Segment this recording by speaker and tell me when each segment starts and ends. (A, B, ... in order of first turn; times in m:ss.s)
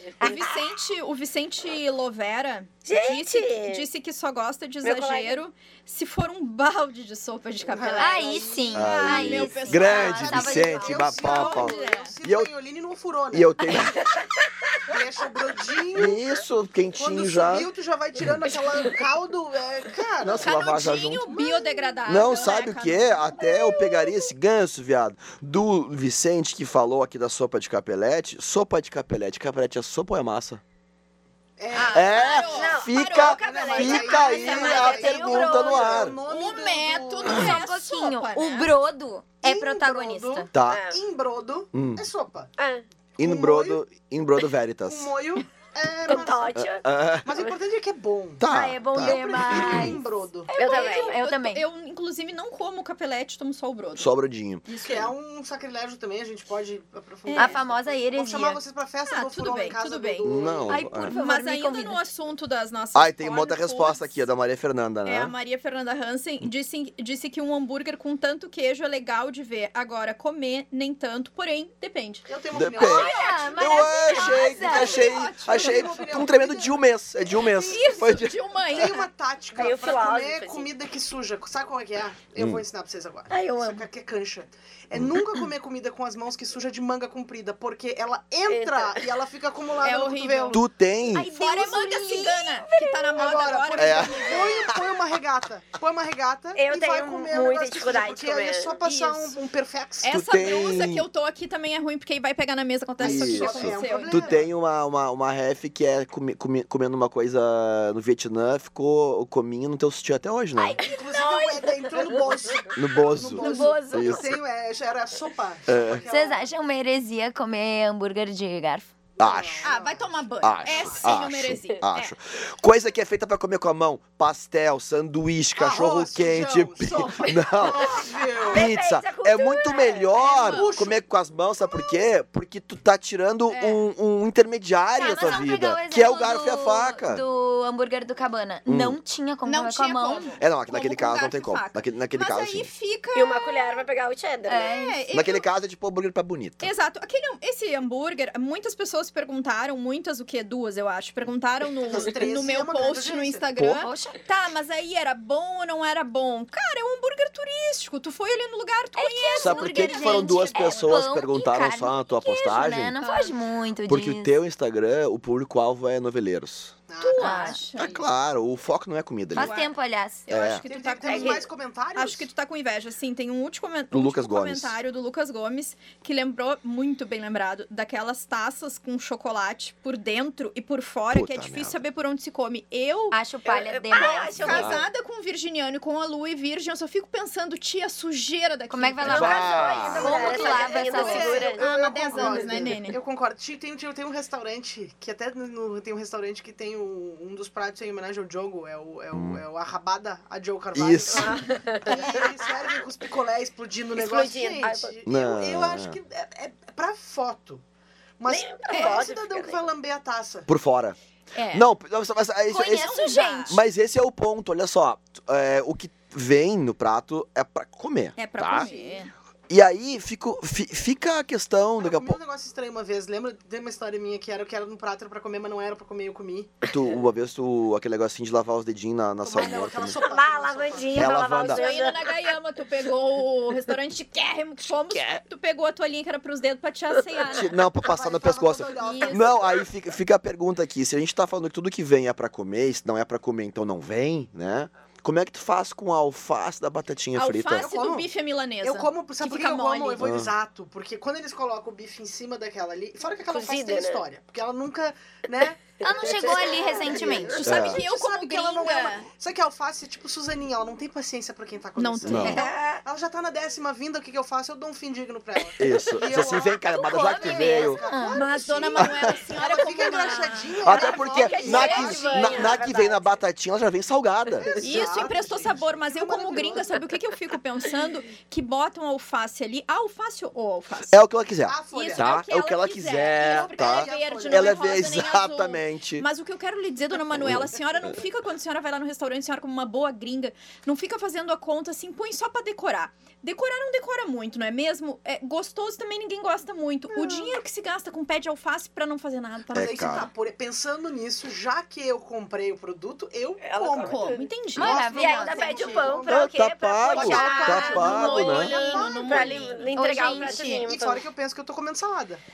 0:00.2-0:00.6 A
0:00.2-0:10.5 B
0:02.8-0:03.8 A
0:04.8-0:05.4 A
0:07.7-0:09.2 C
0:08.0-0:11.2 D
0:08.7-0:12.5 E
0:09.7-0:13.6 C
0:11.1-0:12.2 B
0:13.3-0:14.0 E
0:14.0-0:14.9 A
0:14.8-0:16.2 C
0:15.9-0:17.7 E
0:16.9-0:20.7 C
0:18.7-0:19.0 A
0:20.2-0:21.3 E
0:20.4-0:23.5 B
0:21.3-0:22.5 C
0:22.1-0:30.6 E
0:31.6-0:37.5 C
0:31.7-0:35.3 B
0:31.9-0:36.2 E
0:32.4-0:36.0 A
0:36.2-0:38.7 B
0:37.3-0:40.5 D
0:39.4-0:42.5 C
0:40.5-0:40.8 E
0:40.6-0:41.0 A
0:41.7-0:42.0 E
0:42.6-0:42.8 A
0:43.2-0:45.1 E
0:43.2-0:43.8 C
0:44.9-0:46.6 C
0:46.0-0:47.5 A
0:46.5-0:47.4 E
0:47.2-0:50.5 C
0:48.4-0:50.0 E
0:48.5-0:50.0 D
0:50.5-0:54.1 B
0:50.6-0:51.1 A
0:50.7-0:51.6 D
0:54.0-0:54.6 E
0:54.6-0:55.1 B
0:54.8-1:00.9 C
0:57.2-0:57.6 B
0:57.3-0:58.6 D
0:59.1-1:00.4 B
1:00.2-1:01.2 E
1:00.7-1:02.0 D
1:01.0-1:04.2 B
1:02.9-1:05.3 E
1:05.0-1:12.3 B
1:12.3-1:13.9 C
1:12.5-1:18.4 E
1:12.8-1:15.0 D
1:12.8-1:16.0 B
1:14.7-1:30.6 C
1:17.6-1:19.1 B
1:19.5-1:20.7 A
1:22.4-1:22.6 E
1:23.3-1:23.8 A
1:24.9-1:25.2 E
1:28.5-1:29.2 A
1:29.8-1:30.6 B
1:30.5-1:31.3 E
1:31.1-1:33.2 D
1:31.1-1:34.7 B
1:33.2-1:40.1 C
1:33.8-1:34.3 E
1:36.5-1:38.7 A
1:38.8-1:39.3 B
1:40.0-1:44.3 B
1:40.1-1:41.0 E
1:43.0-1:44.5 C
1:43.0-1:50.8 E
1:50.8-1:56.5 C
1:51.1-1:52.4 A
1:52.7-1:54.4 E
1:53.4-1:53.8 D
1:53.4-1:53.8 B
1:55.7-1:56.0 E
1:56.0-1:59.1 D
1:59.2-2:01.1 C
1:59.2-1:59.7 E
1:59.6-2:02.1 B
2:00.4-2:17.2 E
2:05.6-2:08.7 C
2:07.6-2:10.1 A
2:10.1-2:10.7 B
2:10.4-2:11.0 C
2:11.6-2:12.0 C
2:13.5-2:13.8 B
2:15.0-2:15.4 B
2:15.0-2:20.4 D
2:18.7-2:19.0 E
2:19.4-2:23.8 B
2:20.4-2:22.7 E
2:23.1-2:24.7 A
2:24.5-2:25.0 D
2:24.5-2:25.5 B
2:25.1-2:26.7 E
2:26.6-2:41.0 B
2:31.8-2:33.5 C
2:33.6-2:33.8 E
2:33.7-2:34.2 D
2:39.0-2:44.3 D
2:39.4-2:43.0 E
2:43.0-2:43.4 B
2:43.9-2:46.7 E
2:46.9-2:48.1 C
2:47.0-2:47.9 B
2:47.2-2:47.6 D
2:47.8-2:49.6 E
2:49.3-2:50.3 D
2:49.3-3:03.2 B
2:50.3-2:50.6 E
2:50.6-2:52.3 C
2:51.0-2:51.4 A
2:53.9-2:54.8 E
3:01.1-3:01.8 E
3:03.1-3:04.7 D
3:03.4-3:04.8 A
3:04.4-3:13.0 B
3:04.5-3:04.8 E
3:08.7-3:11.5 D
3:09.0-3:10.4 E
3:09.0-3:11.6 A
3:10.0-3:27.6 C
3:19.1-3:19.4 E
3:20.7-3:21.4 E
3:21.2-3:22.8 A
3:21.6-3:22.2 B
3:23.9-3:25.0 A
3:25.0-3:26.0 E
3:28.2-3:30.5 C
3:28.3-3:29.6 A
3:28.7-3:29.0 B
3:30.5-3:31.0 E
3:31.3-3:31.7 B
3:31.5-3:38.7 E
3:32.5-3:33.6 B
3:32.8-3:33.6 D
3:38.2-3:39.1 B
3:38.5-3:39.0 C
3:39.5-3:42.2 E
3:41.8-3:46.6 C
3:46.7-3:50.0 E
3:49.2-3:51.4 C
3:49.4-3:52.1 A
3:50.9-3:51.6 E
3:51.4-3:57.5 B
3:54.9-3:55.2 E
3:57.3-4:07.7 E
3:57.8-3:59.6 C
3:58.8-3:59.4 B
4:07.2-4:10.1 B
4:07.5-4:08.1 C
4:08.6-4:32.7 C
4:10.0-4:10.3 E
4:13.3-4:14.0 A
4:15.8-4:17.5 D
4:16.0-4:17.4 A
4:17.3-4:19.1 B
4:17.4-4:17.8 E
4:21.8-4:22.6 B
4:22.0-4:22.4 E
4:22.2-4:22.8 A
4:25.6-4:27.8 E
4:27.1-4:32.3 B
4:27.1-4:28.3 D
4:28.8-4:29.2 E
4:30.6-4:34.5 E
4:30.8-4:33.2 A
4:31.6-4:32.0 D
4:34.4-4:36.9 C
4:34.6-4:41.0 B
4:40.9-4:46.0 E
4:41.4-4:42.2 C
4:41.7-5:00.1 B
4:43.1-4:44.8 C
4:47.2-4:47.5 E
4:56.9-4:57.4 C
4:59.5-5:00.1 E
4:59.5-5:03.9 C
5:03.4-5:04.3 A
5:03.5-5:06.0 B
5:04.5-5:05.6 D
5:04.6-5:06.4 C
5:04.8-5:11.0 A
5:06.1-5:08.5 E
5:06.9-5:09.4 C
5:06.9-5:10.6 B
5:09.8-5:10.6 D
5:10.4-5:12.2 C